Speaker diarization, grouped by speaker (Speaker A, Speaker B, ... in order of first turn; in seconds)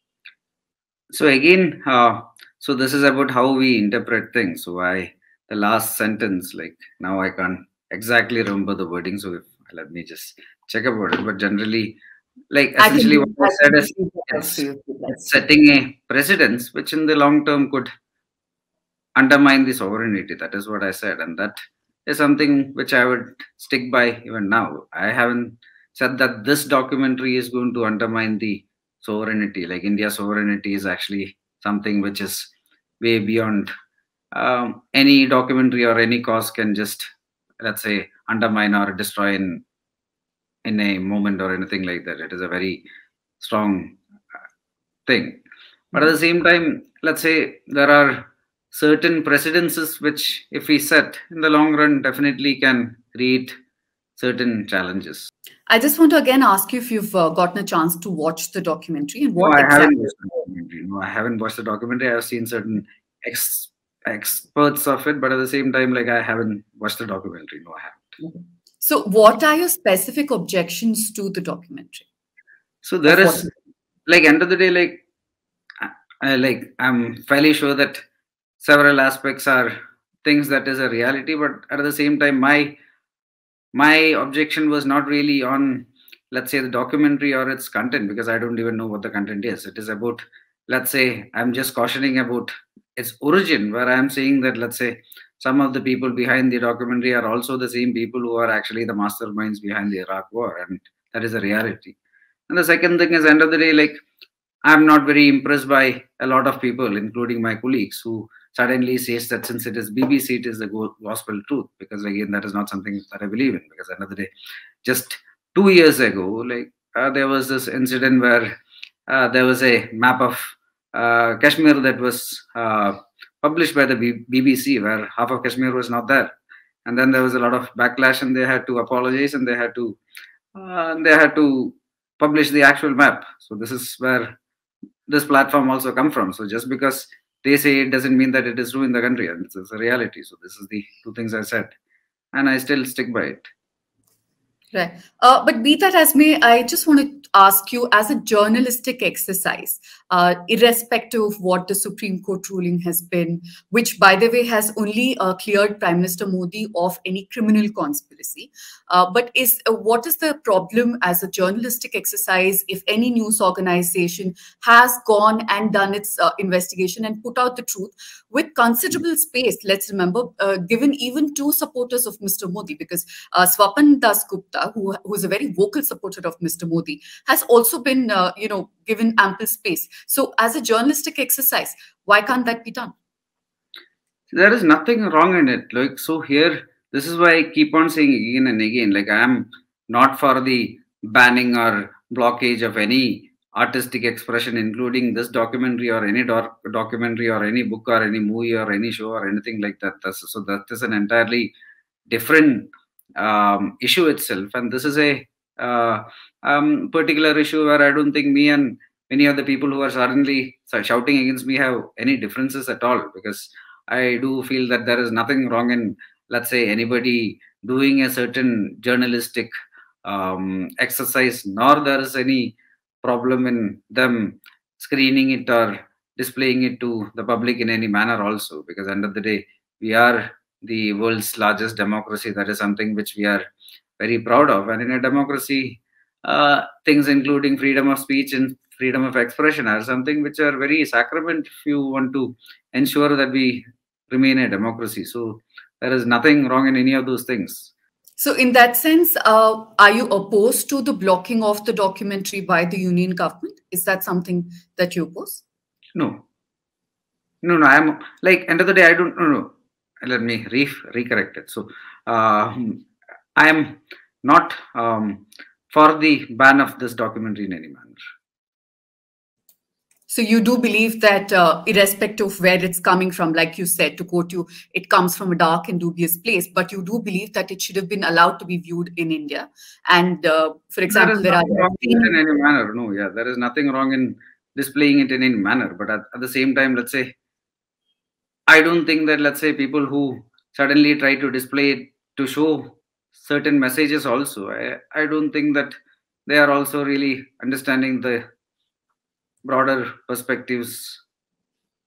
Speaker A: 1.1-11.9, 12.5-17.9, 19.1-33.7, 34.3-37.1, 37.6-39.6, 40.6-42.8, 43.4-44.0, 45.1-45.4, 45.9-53.5, 54.2-55.3, 59.4-68.2, 72.8-73.5, 74.1-75.0, 75.8-78.0, 78.6-82.8, 83.7-101.9, 102.5-104.0, 104.6-114.3, 114.8-118.6, 119.1-126.3, 126.8-130.0, 130.5-134.3, 135.1-141.7, 142.3-143.4, 184.3-201.5, 202.1-219.5, 220.0-233.4, 234.0-247.7, 255.9-256.2, 257.4-268.0, 280.9-287.1, 288.5-298.2, 299.4-301.0
Speaker B: 12.8-15.2, 55.7-60.1, 68.2-72.0, 73.0-73.5, 144.7-182.9, 248.2-255.4, 270.1-282.1